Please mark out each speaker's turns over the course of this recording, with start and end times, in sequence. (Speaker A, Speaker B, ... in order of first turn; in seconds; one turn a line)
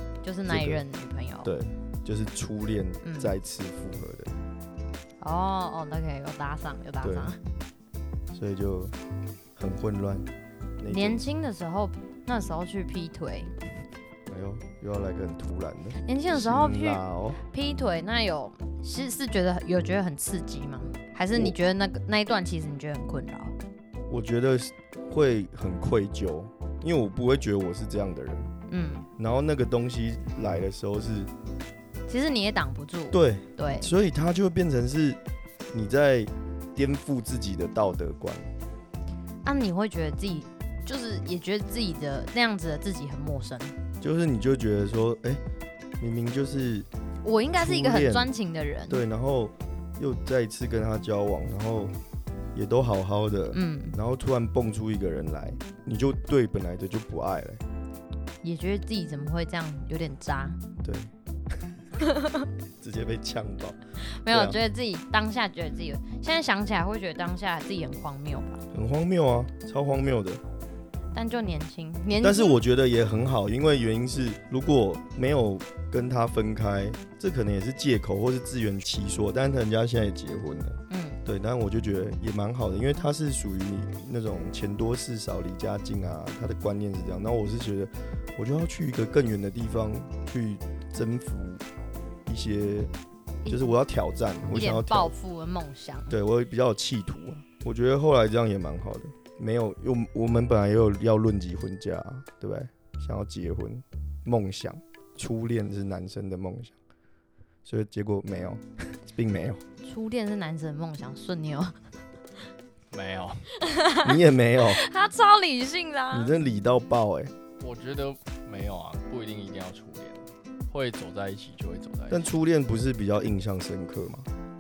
Speaker A: 0.2-1.5
Speaker B: 0.5-0.8
Speaker B: 1.4-4.4
Speaker A: 3.0-3.3
Speaker A: 5.2-7.4
Speaker B: 7.0-7.3
Speaker B: 8.3-9.0
Speaker B: 9.6-11.2
Speaker A: 10.9-13.5
Speaker B: 14.3-17.4
Speaker A: 16.1-23.6
Speaker B: 21.3-21.6
Speaker B: 24.1-28.5
Speaker A: 28.7-29.1
Speaker B: 29.2-31.3
Speaker A: 32.1-33.9
Speaker B: 33.1-35.2
Speaker B: 35.7-38.5
Speaker A: 39.4-43.8
Speaker B: 44.0-45.4
Speaker B: 46.0-46.9
Speaker A: 47.2-49.0
Speaker B: 47.5-48.3
Speaker B: 48.9-52.0
Speaker B: 52.5-57.6
Speaker A: 53.5-54.0
Speaker A: 58.4-60.6
Speaker B: 60.8-61.1
Speaker A: 62.0-62.5
Speaker B: 62.8-64.6
Speaker A: 64.0-68.6
Speaker B: 68.7-70.4
Speaker A: 71.1-72.6
Speaker B: 72.2-91.6
Speaker A: 80.9-81.2
Speaker B: 92.3-92.9
Speaker A: 93.4-93.7
Speaker B: 93.5-95.1
Speaker A: 94.5-96.2
Speaker B: 96.1-106.8
Speaker B: 107.7-109.6
Speaker A: 109.8-111.8
Speaker C: 112.9-113.5
Speaker A: 113.6-116.3
Speaker B: 114.0-114.8
Speaker B: 116.1-117.3
Speaker C: 117.6-122.3
Speaker B: 122.1-124.3